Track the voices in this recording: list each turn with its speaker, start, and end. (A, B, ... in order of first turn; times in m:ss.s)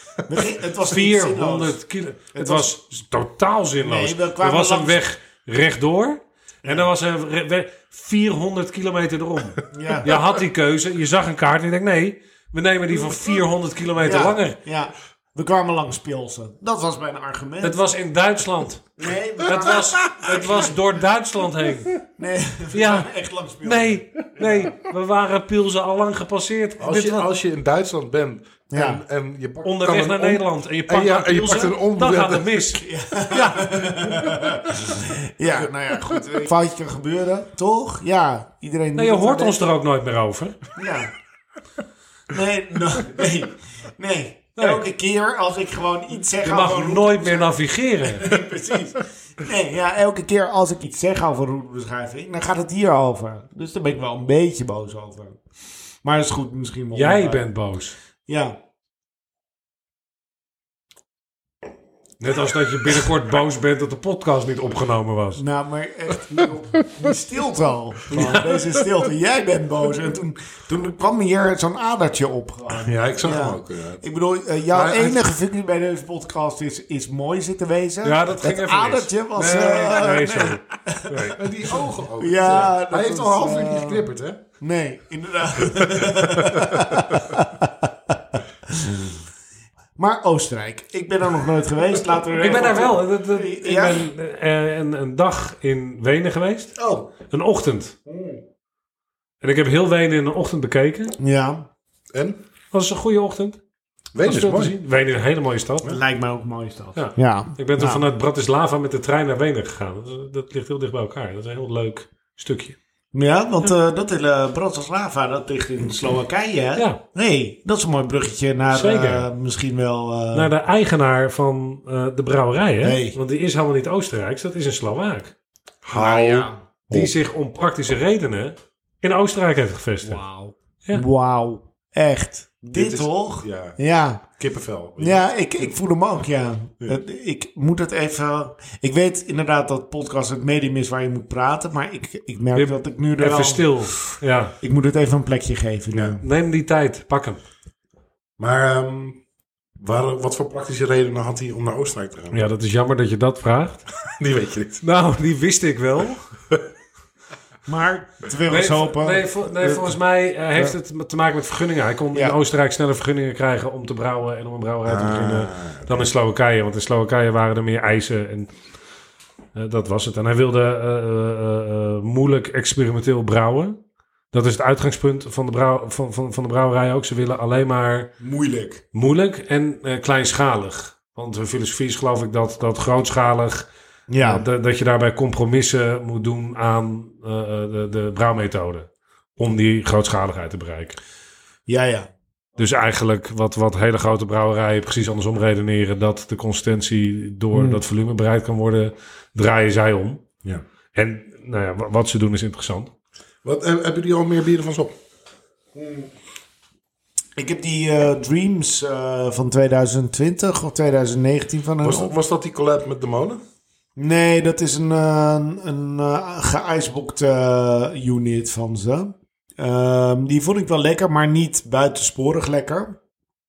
0:00.3-0:01.8 A
0:00.8-0:14.6 B
0:02.4-0:02.8 A
0:03.8-0:05.0 A
0:09.7-0:10.2 A
0:14.0-0:17.8 A
0:17.6-0:22.0 B
0:19.0-0:20.8 A
0:22.1-0:24.7 A
0:22.7-0:23.1 B
0:23.6-0:27.3 B
0:26.8-0:32.6 C
0:28.7-0:29.0 A
0:29.6-0:34.3 B
0:32.8-0:39.6 A
0:39.0-0:40.7 B
0:40.8-0:41.1 A
0:42.3-0:55.4 A
0:44.6-0:44.8 B
0:46.4-0:48.3 B
0:56.0-0:57.5 A
0:56.9-0:58.0 B
0:58.3-0:58.6 A
1:02.2-1:05.4 B
1:05.4-1:21.4 A
1:08.1-1:08.4 C
1:08.1-1:08.6 B
1:12.7-1:14.0 C
1:14.7-1:15.2 C
1:18.0-1:21.4 B
1:21.3-1:24.4 C
1:22.2-1:24.1 A
1:24.6-1:29.2 A
1:26.0-1:27.3 C
1:30.0-1:34.1 A
1:32.4-1:36.8 B
1:36.8-1:37.1 A
1:37.3-1:38.0 B
1:38.1-1:38.4 A
1:39.4-1:41.2 B
1:41.2-1:41.7 A
1:42.1-1:42.4 C
1:42.7-1:43.6 B
1:44.1-1:44.8 C
1:44.2-1:46.0 B
1:45.8-1:48.0 A
1:47.0-1:52.8 B
1:53.1-2:00.5 A
1:58.7-1:59.3 B
2:00.3-2:05.3 B
2:02.8-2:03.2 A
2:05.8-2:07.1 C
2:05.9-2:07.1 A
2:06.9-2:10.2 B
2:10.1-2:14.2 A
2:12.7-2:13.8 C
2:14.4-2:15.3 C
2:15.0-2:23.9 A
2:22.5-2:24.6 B
2:24.6-2:26.2 A
2:26.2-2:27.4 B
2:28.4-2:29.2 C
2:29.8-2:32.4 C
2:32.3-2:33.9 B
2:34.1-2:34.8 C
2:34.8-2:36.2 B
2:37.7-2:40.0 A
2:38.5-2:48.5 B
2:44.8-2:45.9 C
2:49.6-2:53.8 B
2:54.3-2:58.1 B
2:58.2-2:58.8 A
2:58.9-3:03.7 B
3:04.1-3:04.5 A
3:04.2-3:11.0 B
3:11.7-3:12.1 A
3:12.6-3:20.2 B
3:17.5-3:17.8 A
3:21.0-3:22.9 B
3:23.4-3:24.9 C
3:25.8-3:26.1 A
3:27.4-3:32.2 A
3:31.8-3:33.4 C
3:34.0-3:43.0 A